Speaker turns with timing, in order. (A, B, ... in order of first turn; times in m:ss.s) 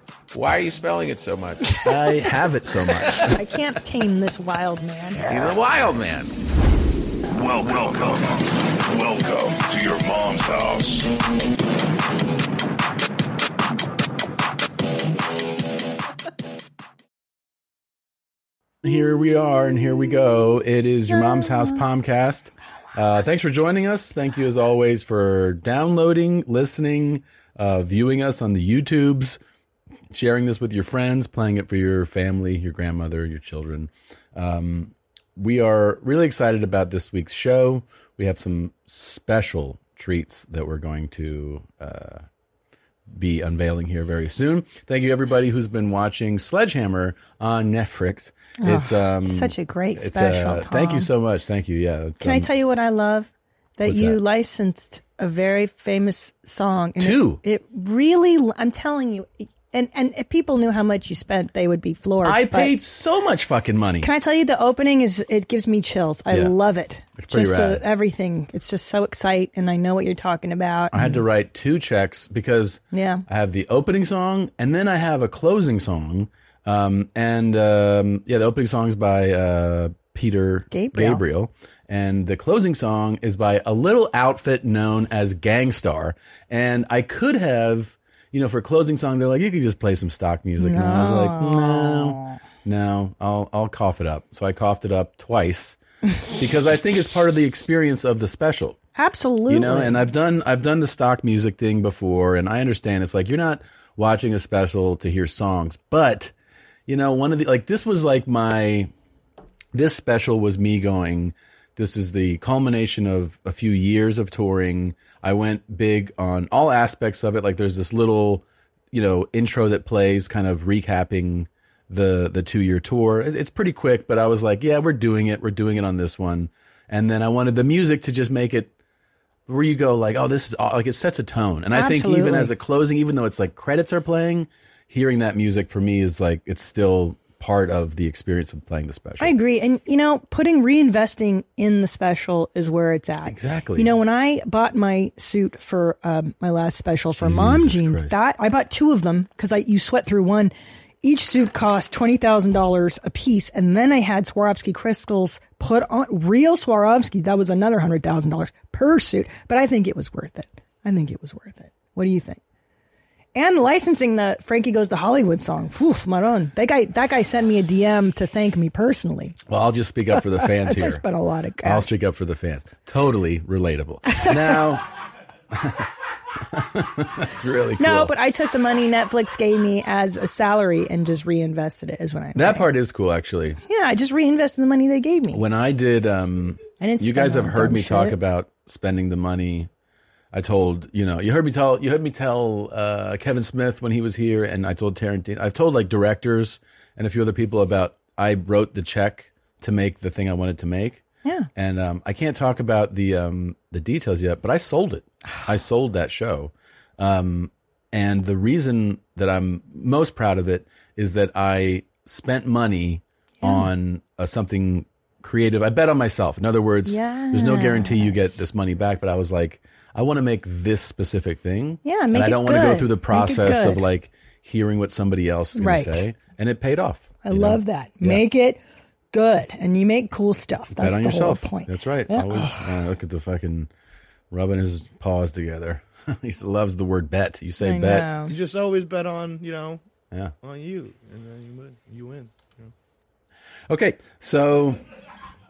0:00.3-0:01.8 A
0:01.8-0:03.4 B
0:03.3-0:05.3 C
0:05.2-0:06.3 A
0:07.3-0:11.1 D
0:18.8-0:29.4 B
0:21.1-0:21.8 C
0:30.1-0:42.2 B
0:43.1-0:52.5 B
0:48.6-0:51.1 C
0:52.2-1:02.8 C
0:53.8-0:54.2 B
0:57.0-0:57.4 B
1:02.2-1:04.1 B
1:04.0-1:11.2 C
1:07.2-1:07.8 B
1:10.9-1:35.8 B
1:12.9-1:13.2 C
1:20.7-1:21.2 C
1:30.6-1:32.4 C
1:36.4-1:38.8 B
1:38.9-1:40.0 C
1:39.5-1:46.3 B
1:46.9-1:48.9 B
1:49.7-2:08.7 B
2:09.5-2:19.3 B
2:11.7-2:12.5 C
2:19.2-2:42.4 C
2:23.2-2:23.9 B
2:27.2-2:28.2 B
2:43.3-2:49.4 C
2:49.5-2:51.0 B
2:50.1-2:51.9 C
2:51.6-2:54.8 B
2:55.5-2:55.8 B
2:56.5-2:58.1 B
2:57.8-3:02.7 C
3:02.3-3:03.6 B
3:03.6-3:05.4 C
3:05.3-3:09.7 B
3:06.8-3:08.2 C
3:10.3-3:21.0 B
3:21.2-3:21.5 C
3:21.5-3:48.2 B
3:33.4-3:33.7 C
3:36.8-3:38.4 C
3:41.8-3:43.8 C
3:45.6-3:46.0 C
3:47.2-3:48.6 C
3:49.1-3:52.8 C
3:50.8-3:53.7 B
3:54.3-3:58.1 B
3:57.6-3:58.4 C
3:58.3-3:59.8 E
4:00.4-4:02.7 E
4:03.7-4:04.8 B